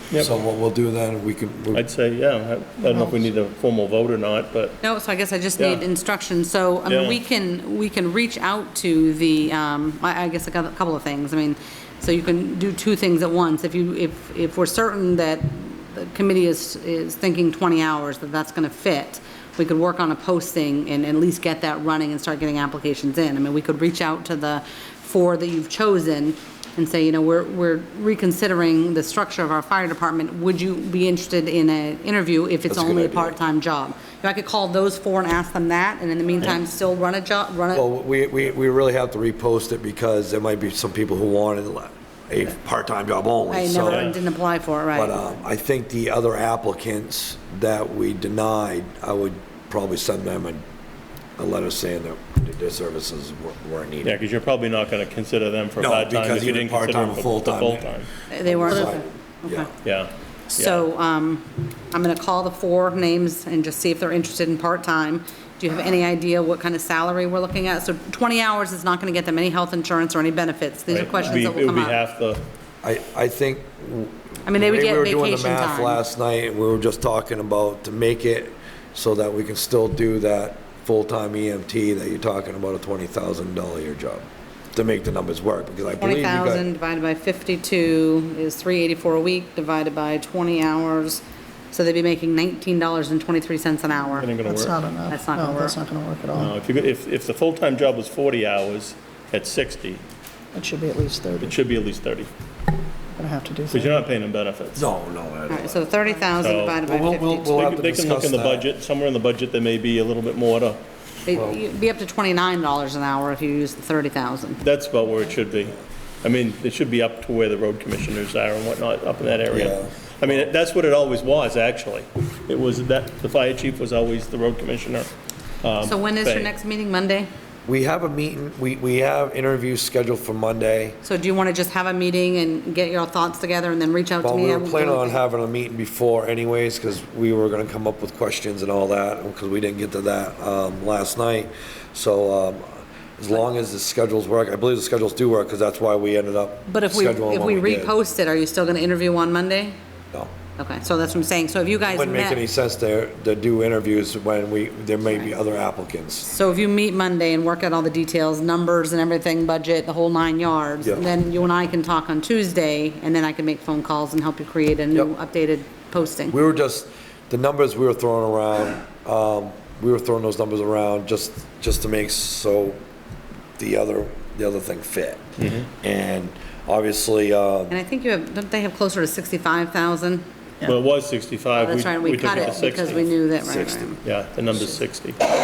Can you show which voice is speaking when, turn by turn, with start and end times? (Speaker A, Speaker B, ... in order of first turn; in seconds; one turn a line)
Speaker A: 0.2-1.9
Speaker B: 1.7-4.8
Speaker C: 4.8-37.8
Speaker B: 5.6-5.8
Speaker B: 6.9-7.2
Speaker A: 32.7-33.4
Speaker A: 37.7-44.1
Speaker C: 43.5-45.1
Speaker B: 43.8-44.2
Speaker A: 44.9-50.6
Speaker A: 51.4-54.2
Speaker B: 54.0-58.1
Speaker A: 55.8-59.7
Speaker C: 58.3-59.7
Speaker B: 59.8-60.9
Speaker C: 60.5-72.0
Speaker B: 70.9-72.4
Speaker A: 72.8-86.7
Speaker C: 74.5-76.0
Speaker C: 86.0-94.3
Speaker B: 94.2-94.8
Speaker D: 94.5-96.5
Speaker C: 95.1-95.8
Speaker B: 96.3-100.0
Speaker D: 100.5-101.6
Speaker B: 101.4-102.3
Speaker D: 103.2-104.0
Speaker B: 103.7-104.9
Speaker A: 104.8-106.1
Speaker C: 105.5-107.7
Speaker B: 106.4-106.8
Speaker A: 106.8-108.7
Speaker B: 107.5-110.8
Speaker C: 111.3-114.6
Speaker A: 111.3-111.6
Speaker B: 114.6-125.1
Speaker A: 119.5-120.5
Speaker B: 125.6-126.5
Speaker C: 125.8-127.3
Speaker A: 127.7-131.0
Speaker C: 131.0-135.2
Speaker A: 134.2-147.9
Speaker C: 146.7-149.8
Speaker C: 150.6-152.4
Speaker A: 151.9-156.3
Speaker C: 156.3-166.4
Speaker A: 160.8-161.1
Speaker A: 166.3-172.8
Speaker A: 173.6-177.8
Speaker B: 175.4-175.7
Speaker C: 177.7-180.2
Speaker B: 180.7-183.1
Speaker C: 181.5-184.0
Speaker A: 183.4-184.0
Speaker B: 184.0-185.2